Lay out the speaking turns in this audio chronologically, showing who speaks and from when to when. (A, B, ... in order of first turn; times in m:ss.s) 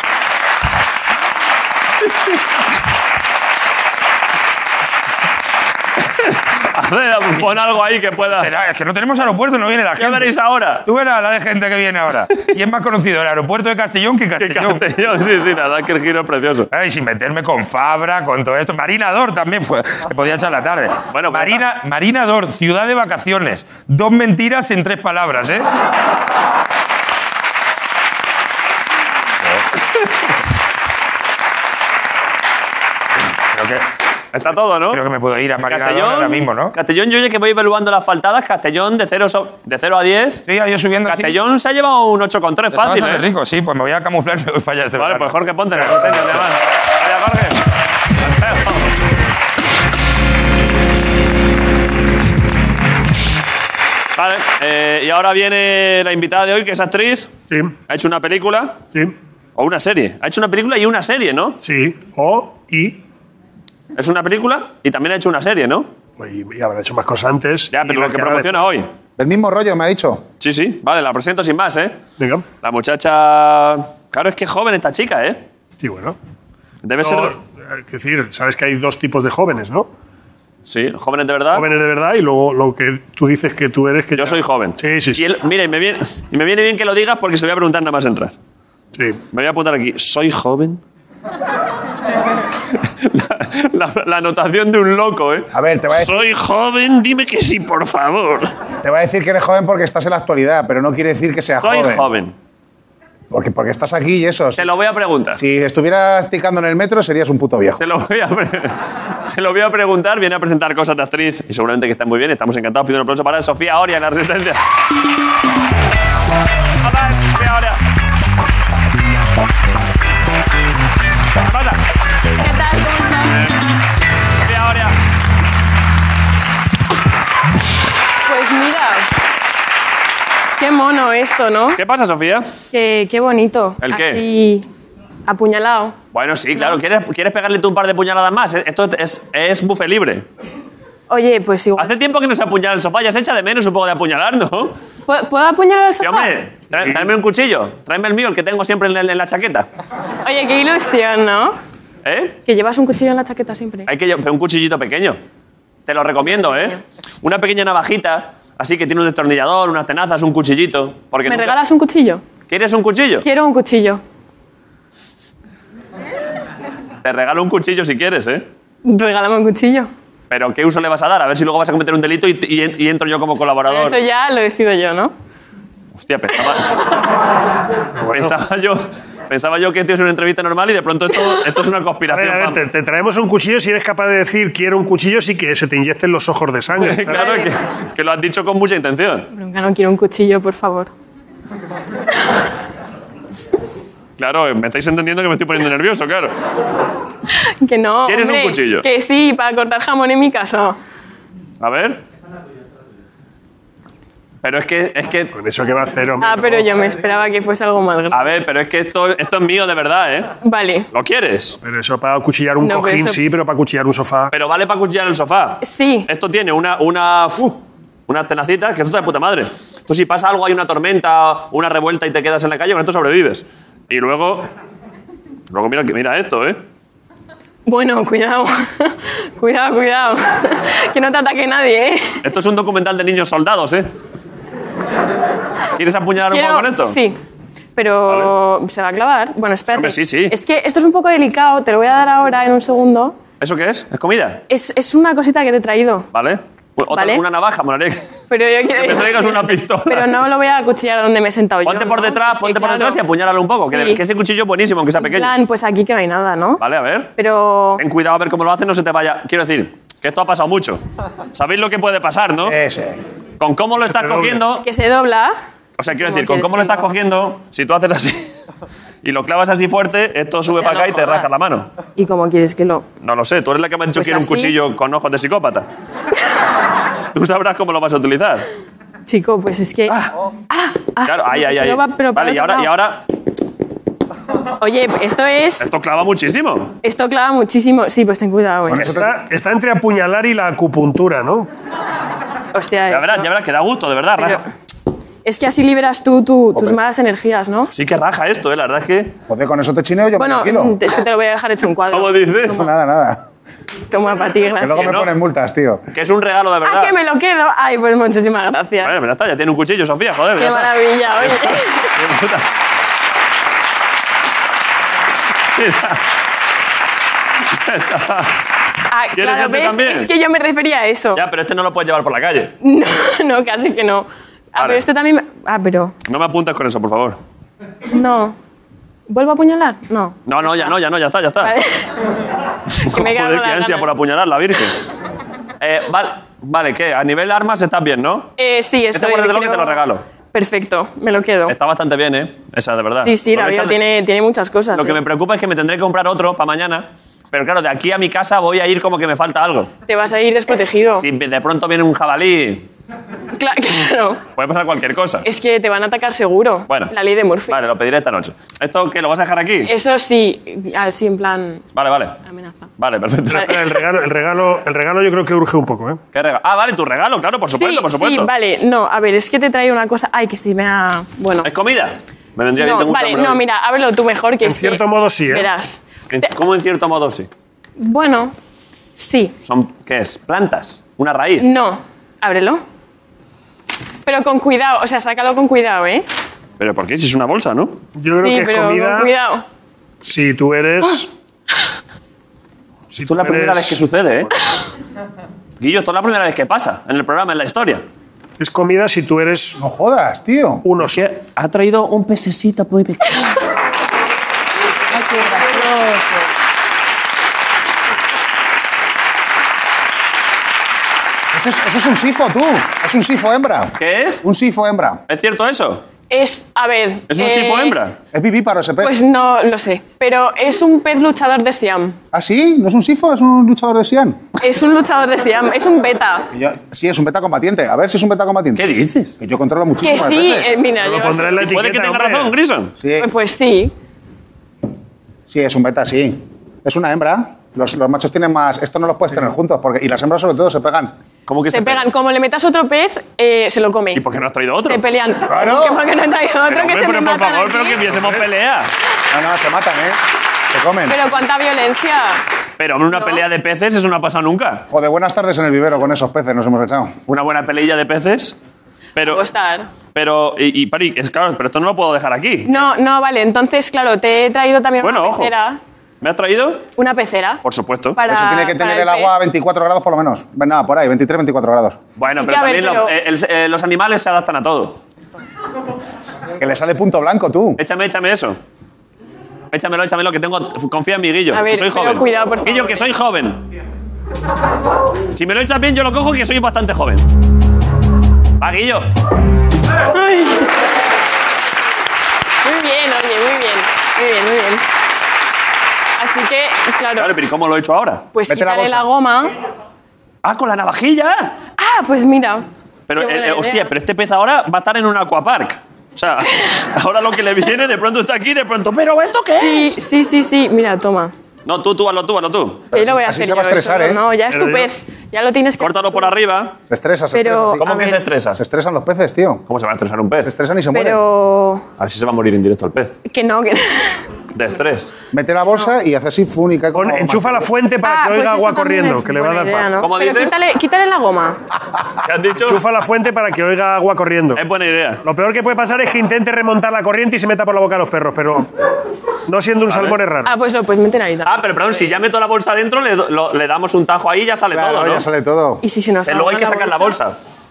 0:06.2-0:08.5 A
0:08.3-0:10.3 B
0:10.0-0:10.8 A
0:10.9-0:14.8 B
0:14.4-0:16.7 A
0:16.7-0:25.7 B
0:21.1-0:21.6 A
0:33.5-0:33.8 B
0:34.3-0:35.0 A
0:34.9-0:36.8 B
0:35.7-0:40.4 A
0:40.5-0:41.4 B
0:41.1-0:43.2 A
0:42.7-0:46.4 B
0:45.0-0:47.6 A
0:48.2-0:48.9 A
0:54.2-0:57.3 A
0:57.9-0:58.8 A
0:59.6-1:01.6 A
1:01.6-1:03.0 C
1:04.0-1:05.9 A
1:06.2-1:08.7 C
1:07.7-1:08.9 A
1:09.2-1:10.2 D
1:10.4-1:12.0 A
1:12.2-1:12.4 C
1:12.6-1:15.4 A
1:15.8-1:16.2 C
1:16.8-1:17.4 A
1:17.0-1:19.9 C
1:20.7-1:21.7 A
1:21.5-1:25.2 C
1:24.2-1:28.3 A
1:29.0-1:29.2 C
1:29.3-1:30.8 A
1:33.0-1:38.5 A
1:35.5-1:36.1 D
1:38.8-1:42.0 D
1:41.6-1:42.4 A
1:43.3-1:44.6 D
1:44.6-1:45.4 A
1:45.4-1:47.8 D
1:47.8-1:48.8 A
1:49.3-1:54.6 A
1:56.8-1:57.8 A
2:01.4-2:01.8 A
2:02.4-2:03.5 E
2:03.3-2:03.6 A
2:04.4-2:05.0 A
2:08.2-2:09.1 E
2:10.6-2:11.8 E
2:11.8-2:12.5 A
2:12.7-2:14.7 E
2:13.8-2:14.2 A
2:15.3-2:16.0 E
2:16.1-2:20.2 A
2:21.1-2:22.0 E
2:21.8-2:24.8 A
2:25.1-2:26.4 E
2:26.0-2:29.7 A
2:30.2-2:31.6 E
2:32.0-2:32.4 A
2:32.5-2:33.9 E
2:33.9-2:35.2 A
2:35.9-2:41.6 A
2:41.3-2:42.2 E
2:42.5-2:43.3 A
2:43.2-2:44.0 E
2:47.0-2:48.4 A
2:48.8-2:49.9 E
2:50.3-2:54.0 A
2:53.7-2:55.1 E
2:56.0-2:56.8 A
2:58.0-2:58.3 C
2:58.1-3:02.6 A
3:02.1-3:07.4 C
3:06.8-3:09.3 A
3:07.2-3:07.5 E
3:09.3-3:10.9 E
3:14.2-3:16.3 A
3:17.6-3:20.8 E
3:18.1-3:18.9 A
3:21.6-3:22.0 A
3:24.4-3:25.3 A
3:25.3-3:26.7 C
3:26.2-3:28.2 E
3:28.1-3:30.3 A
3:30.4-3:30.9 E
3:30.9-3:31.6 A
3:31.6-3:34.3 C
3:32.6-3:33.2 E
3:34.3-3:44.5 A
3:35.6-3:36.1 E
3:45.5-3:46.6 A
3:47.7-3:52.2 E
3:52.2-3:53.9 A
3:55.8-3:57.0 A
3:56.3-3:57.2 E
3:57.8-4:03.2 E
3:58.1-3:58.4 A
3:59.7-4:00.3 A
4:03.4-4:04.4 A
4:04.5-4:06.1 E
4:06.1-4:08.1 A
4:06.9-4:07.2 E
4:08.3-4:13.0 E
4:08.7-4:10.1 A
4:11.6-4:15.3 A
4:13.7-4:14.0 E
4:15.0-4:16.6 E
4:16.6-4:17.1 A
4:17.2-4:17.8 E
4:17.8-4:20.8 A
4:21.3-4:22.6 A
4:22.5-4:23.0 D
4:23.4-4:24.7 A
4:23.8-4:24.4 C
4:24.6-4:25.4 E
4:25.8-4:28.3 A
4:25.9-4:26.9 E
4:29.0-4:31.7 A
4:30.5-4:31.3 E
4:32.0-4:32.9 E
4:33.0-4:35.7 A
4:33.9-4:34.6 E
4:37.1-4:38.5 A
4:39.1-4:40.0 E
4:40.5-4:42.7 E
4:41.0-4:43.0 A
4:44.6-4:45.7 E
4:45.6-4:46.8 A
4:46.8-4:48.9 E
4:48.7-4:49.1 D
4:48.8-4:51.5 C
4:52.5-4:53.3 E
4:52.9-4:54.4 A
4:54.2-4:54.4 E
4:55.2-4:57.7 E
4:57.7-4:59.1 A
4:59.3-5:00.8 D
5:00.2-5:02.7 E
5:01.9-5:02.6 A
5:02.4-5:03.2 D
5:03.9-5:05.0 E
5:04.6-5:05.8 D
5:04.7-5:05.1 A
5:05.9-5:06.9 A
5:06.6-5:09.0 E
5:08.8-5:12.5 A
5:10.4-5:11.9 E
5:15.6-5:16.0 A
5:17.5-5:18.4 A
5:18.9-5:21.2 E
5:19.2-5:20.1 A
5:21.2-5:22.5 A
5:22.6-5:25.9 E
5:24.6-5:24.8 A
5:26.1-5:27.2 A
5:27.9-5:28.4 E
5:29.1-5:30.8 E
5:30.3-5:31.6 A
5:31.4-5:31.9 E
5:32.7-5:34.8 A
5:32.8-5:33.9 E
5:35.6-5:38.3 A
5:38.4-5:41.6 E
5:38.9-5:40.0 A
5:41.5-5:43.8 A
5:43.0-5:45.0 E
5:44.7-5:49.7 A
5:49.9-5:51.1 E
5:51.0-5:52.6 A
5:53.4-5:54.2 E
5:54.4-5:55.2 A
5:55.2-5:57.6 E
5:56.7-5:56.9 A
5:57.5-5:59.7 A
5:59.6-6:01.6 E
6:01.7-6:02.2 A
6:02.2-6:02.7 E
6:02.8-6:03.6 A
6:03.3-6:06.0 C
6:06.1-6:08.3 A
6:07.6-6:11.5 E
6:11.4-6:13.4 A
6:12.6-6:15.8 E
6:14.4-6:15.5 C
6:16.1-6:17.3 A
6:17.8-6:18.3 E
6:19.0-6:19.4 E
6:19.4-6:21.5 A
6:21.4-6:22.6 E
6:24.1-6:26.1 E
6:26.6-6:27.8 A
6:28.0-6:29.1 C
6:28.2-6:29.4 E
6:30.0-6:31.1 C
6:32.9-6:33.8 C
6:33.0-6:34.3 A
6:35.6-6:37.8 A
6:38.4-6:39.6 C
6:39.6-6:40.6 D
6:40.6-6:41.0 C
6:40.8-6:43.2 A
6:51.3-6:55.0 D
6:53.8-6:54.2 A
6:55.1-6:55.8 A
6:56.1-6:57.8 E
6:57.1-6:58.0 A
6:58.1-6:58.9 D
6:58.8-7:02.0 E
7:02.1-7:04.2 D
7:04.4-7:06.3 E
7:06.3-7:08.6 D
7:08.6-7:09.2 A
7:09.2-7:10.5 D
7:09.8-7:11.6 E
7:10.8-7:12.3 C
7:11.4-7:12.7 A
7:12.8-7:13.1 D
7:13.0-7:13.7 E
7:15.3-7:20.9 D
7:21.3-7:21.8 A
7:21.5-7:24.0 E
7:23.9-7:24.8 A
7:24.7-7:27.8 E
7:25.3-7:25.8 D
7:26.5-7:28.7 A
7:28.0-7:28.2 C
7:29.1-7:30.0 D
7:30.5-7:31.0 D
7:30.9-7:32.2 E
7:32.6-7:34.7 A
7:32.9-7:33.2 E
7:34.7-7:36.9 D
7:37.1-7:38.4 A
7:39.0-7:39.2 A
7:39.0-7:39.7 E
7:39.9-7:42.5 A
7:42.4-7:45.6 E
7:44.8-7:45.3 A
7:46.0-7:46.7 A
7:46.8-7:47.4 E
7:47.4-7:48.0 A
7:48.0-7:49.1 E
7:48.1-7:51.8 D
7:52.0-7:54.8 A
7:52.1-7:52.9 E
7:56.4-7:57.6 D
7:57.6-7:58.4 A
7:59.5-8:03.4 A
8:01.3-8:02.9 E
8:05.1-8:07.0 A
8:08.4-8:08.9 A
8:09.9-8:10.6 E
8:12.4-8:14.6 E
8:16.0-8:17.1 E
8:17.0-8:18.1 A
8:18.1-8:19.3 E
8:18.3-8:18.8 D
8:20.2-8:21.4 A
8:21.6-8:23.7 E
8:22.9-8:29.8 A
8:29.4-8:31.1 E
8:31.5-8:32.7 A
8:32.7-8:34.0 D
8:32.7-8:36.1 E
8:34.3-8:34.7 C
8:35.6-8:36.5 A
8:36.7-8:37.7 D
8:37.1-8:38.0 E
8:37.6-8:38.4 A
8:38.4-8:39.4 D
8:39.5-8:40.3 A
8:40.2-8:41.0 D
8:40.7-8:41.6 E
8:41.8-8:43.0 A
8:43.1-8:44.0 E
8:44.3-8:44.9 A
8:45.1-8:47.5 D
8:46.7-8:49.8 C
8:47.8-8:51.4 E
8:49.8-8:50.4 A
8:52.0-8:52.6 A
8:52.4-8:54.4 C
8:54.4-8:55.0 A
8:55.0-8:58.5 C
8:59.3-9:00.3 C
8:59.7-9:00.0 A
9:00.2-9:01.3 E
9:01.2-9:05.0 A
9:04.5-9:05.6 D
9:05.6-9:07.0 E
9:06.0-9:07.2 A